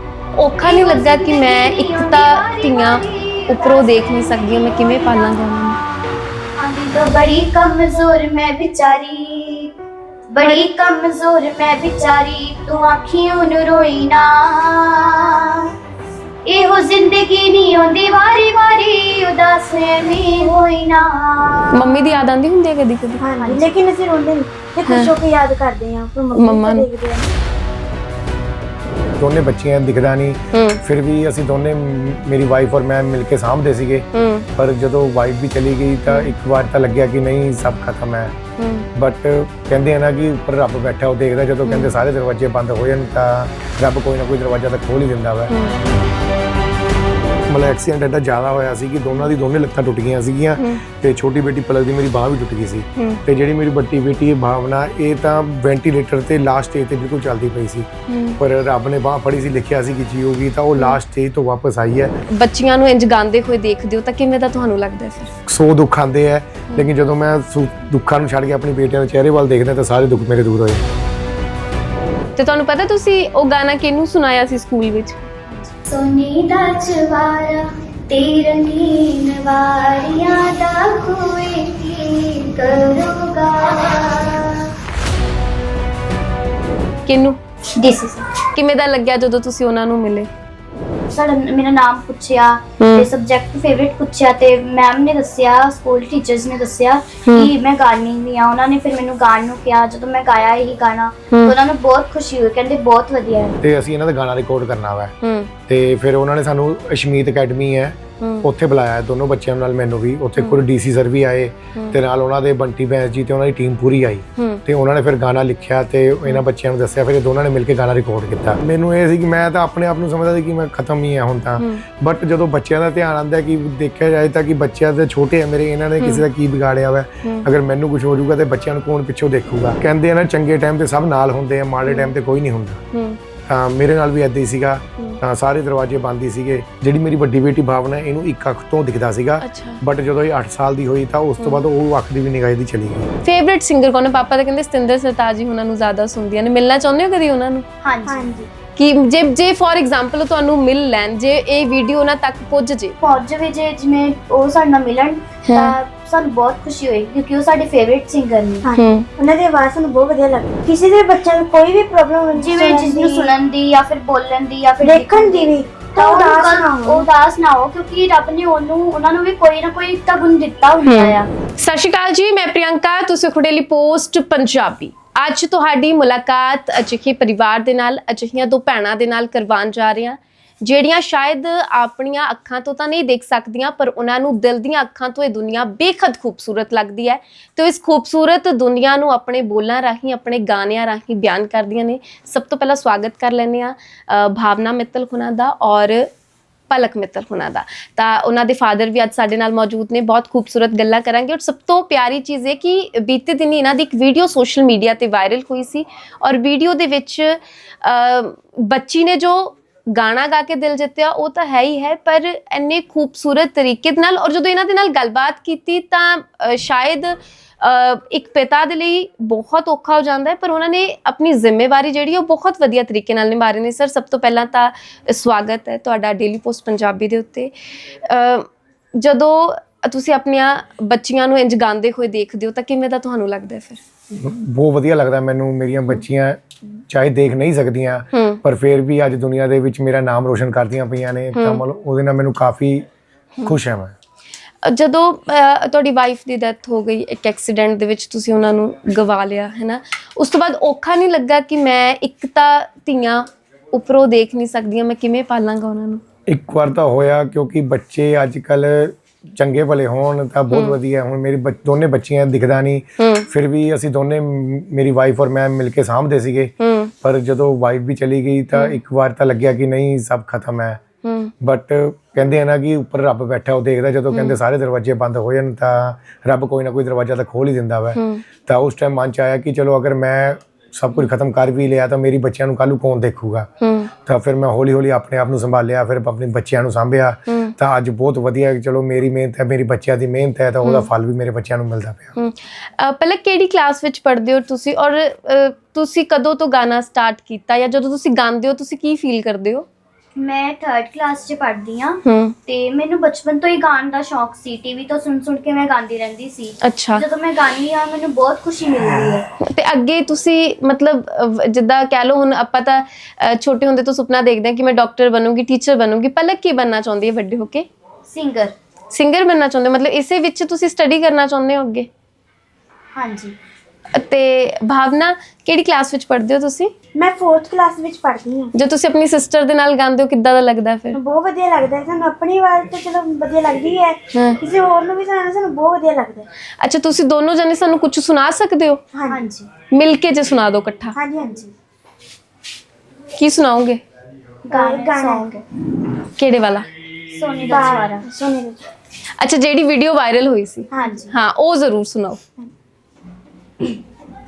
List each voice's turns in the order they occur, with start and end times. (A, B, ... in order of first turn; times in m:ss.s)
0:00.4-0:05.8 A
0:00.6-0:09.7 B
0:10.3-0:15.7 B
0:16.4-0:22.1 B
0:21.7-0:23.2 A
0:23.2-0:27.3 C
0:23.4-0:23.7 B
0:24.8-0:25.1 A
0:26.4-0:26.9 A
0:29.2-0:38.4 D
0:30.5-0:30.8 A
0:34.1-0:34.5 A
0:36.1-0:36.3 A
0:38.6-0:38.9 A
0:39.0-0:45.5 D
0:41.6-0:41.9 A
0:45.5-0:45.8 A
0:47.5-1:02.1 D
0:50.6-0:50.8 A
0:58.1-0:58.4 A
1:02.3-1:05.3 A
1:05.5-1:10.8 D
1:12.4-1:15.3 A
1:15.5-1:24.7 B
1:27.0-1:27.4 A
1:27.8-1:28.3 B
1:28.5-1:30.3 A
1:31.1-1:43.6 B
1:32.8-1:33.1 A
1:43.6-1:45.1 D
1:45.2-1:45.5 A
1:45.7-2:12.8 D
1:48.2-1:48.5 A
1:50.4-1:50.6 A
1:54.4-1:54.6 A
2:01.6-2:01.8 A
2:06.0-2:06.2 A
2:11.8-2:12.1 A
2:12.9-2:13.2 A
2:13.4-2:23.1 D
2:19.4-2:19.8 A
2:23.2-2:27.6 A
2:27.8-2:28.3 B
2:28.1-2:28.5 C
2:28.8-2:33.0 A
2:33.0-2:38.7 B
2:35.5-2:35.7 A
2:38.6-2:43.3 C
2:38.7-2:39.1 A
2:42.4-2:51.3 B
2:44.8-2:47.1 C
2:50.8-3:16.1 A
3:16.7-3:47.5 A
3:48.0-3:53.8 A
3:54.1-4:02.8 D
3:58.1-3:58.4 A
4:01.3-4:01.6 A
4:03.4-4:03.9 D
4:04.6-4:16.0 A
4:16.2-4:30.8 D
4:20.5-4:20.8 A
4:23.0-4:23.3 A
4:26.6-4:26.9 A
4:31.0-4:31.3 A
4:31.4-4:52.1 D
4:34.1-4:34.4 A
4:37.9-4:38.2 A
4:43.6-4:43.9 A
4:47.3-4:47.5 A
4:50.6-4:50.9 A
4:52.2-4:59.6 A
5:00.2-5:09.3 B
5:02.0-5:02.3 A
5:06.6-5:07.0 A
5:09.4-5:17.7 A
5:18.1-5:18.5 B
5:18.9-5:21.9 A
5:22.9-5:23.4 B
5:23.9-5:26.7 A
5:27.0-5:28.5 C
5:28.5-5:31.0 A
5:30.9-5:36.3 C
5:34.1-5:34.4 A
5:36.6-5:38.8 A
5:38.9-5:39.2 C
5:39.1-5:39.5 B
5:39.7-5:41.0 A
5:41.0-5:41.4 C
5:41.2-5:41.5 B
5:43.2-5:43.8 A
5:44.4-5:45.4 B
5:44.5-5:45.4 C
5:46.2-5:46.7 A
5:47.1-5:48.0 B
5:47.4-5:48.7 C
5:49.2-5:52.2 A
5:50.7-5:51.0 C
5:50.7-5:51.1 B